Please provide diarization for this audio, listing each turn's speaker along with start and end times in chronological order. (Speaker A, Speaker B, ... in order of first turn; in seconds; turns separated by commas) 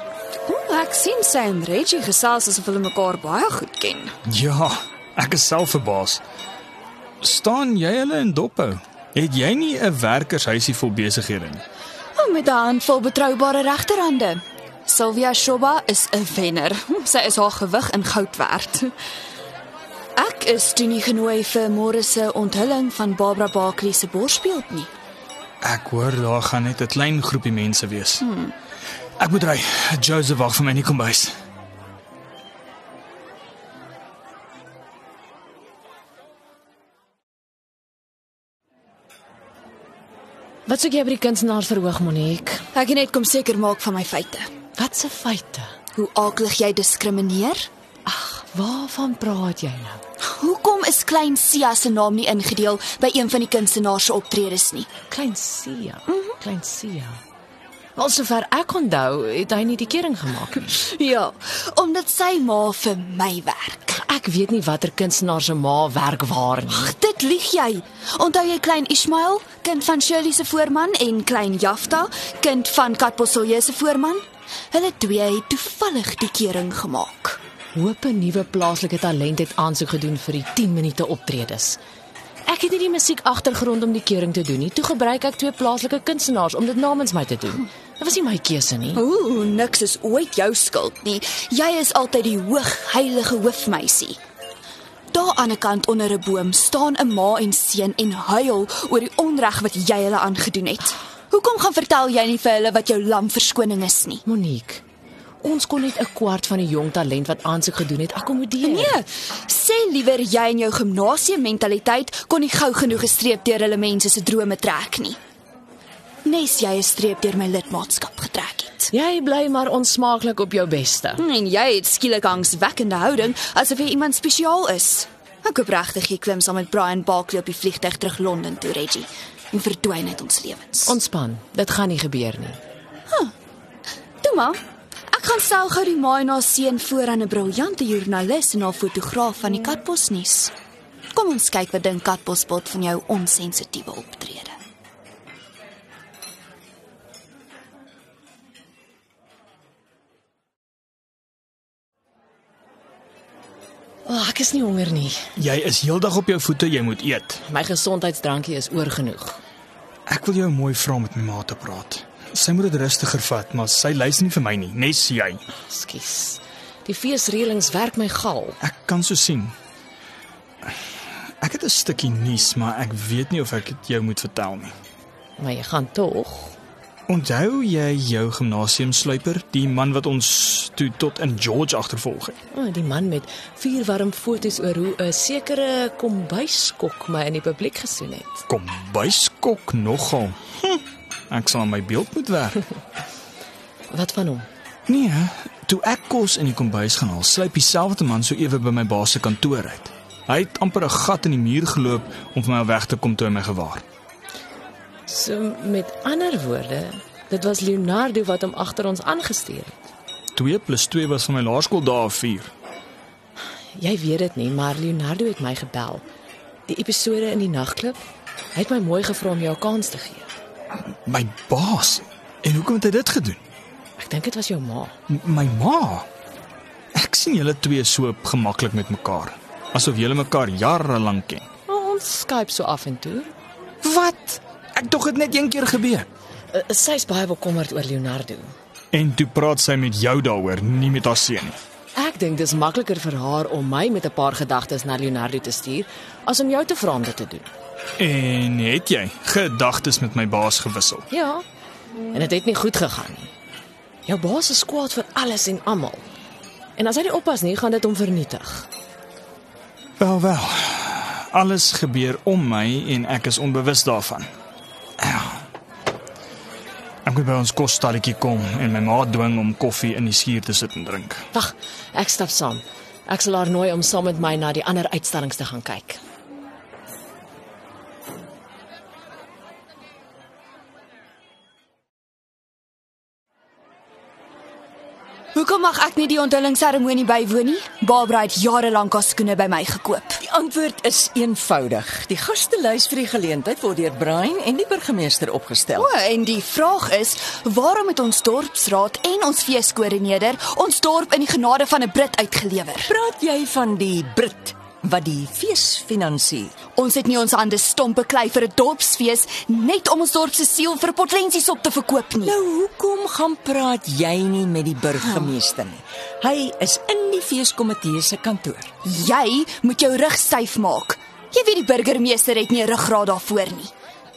Speaker A: 0.5-4.2, Speaker B: 4.3-6.2, Speaker B: 7.2-11.6, Speaker A: 12.2-18.9, Speaker A: 20.2-24.9, Speaker B: 25.6-28.2, Speaker A: 28.3-28.5, Speaker B: 29.2-31.3, Speaker C: 40.7-42.6, Speaker A: 42.7-44.5, Speaker C: 44.8-45.7, Speaker A: 45.9-47.7, Speaker C: 48.1-50.0, Speaker A: 50.2-54.9, Speaker C: 55.1-57.2, Speaker C: 58.0-60.7, Speaker A: 60.7-64.0, Speaker C: 63.9-66.9, Speaker A: 66.7-77.4, Speaker C: 77.8-81.8, Speaker C: 82.5-89.0, Speaker A: 89.0-94.2, Speaker A: 95.1-104.2, Speaker C: 104.3-104.8, Speaker C: 105.4-109.0, Speaker A: 108.6-115.2, Speaker A: 116.2-118.9, Speaker C: 118.9-121.2, Speaker A: 121.2-130.9, Speaker C: 130.9-132.6, Speaker A: 134.2-134.6, Speaker A: 135.1-140.5, Speaker A: 141.1-144.6, Speaker C: 154.1-155.2, Speaker B: 155.4-157.4, Speaker C: 157.5-159.4, Speaker B: 160.1-165.4, Speaker C: 165.7-168.6, Speaker B: 168.6-169.6, Speaker B: 171.4-174.8, Speaker C: 175.4-176.6, Speaker B: 177.1-182.4, Speaker C: 182.5-188.4, Speaker B: 188.5-190.8, Speaker B: 191.3-192.6, Speaker C: 193.9-194.5, Speaker B: 194.9-203.8, Speaker C: 205.1-209.8, Speaker B: 210.3-212.5, Speaker C: 213.8-216.0, Speaker C: 216.7-218.0, Speaker C: 218.6-220.3, Speaker B: 221.1-223.4, Speaker C: 224.0-224.9, Speaker B: 225.1-226.1, Speaker B: 226.9-231.5, Speaker C: 231.7-233.3, Speaker B: 233.8-236.1, Speaker C: 236.5-238.5, Speaker B: 238.9-241.6, Speaker C: 241.9-247.5, Speaker B: 248.0-251.1, Speaker C: 251.1-251.4, Speaker C: 252.1-253.3, Speaker C: 254.1-256.0, Speaker C: 256.8-258.7, Speaker B: 260.0-264.3, Speaker B: 265.0-265.4, Speaker B: 267.1-271.3, Speaker C: 271.3-276.0, Speaker A: 285.4-290.2, Speaker D: 290.2-295.9, Speaker A: 295.8-302.9, Speaker D: 302.8-306.5, Speaker A: 306.8-312.4, Speaker D: 312.2-318.7, Speaker A: 318.8-323.7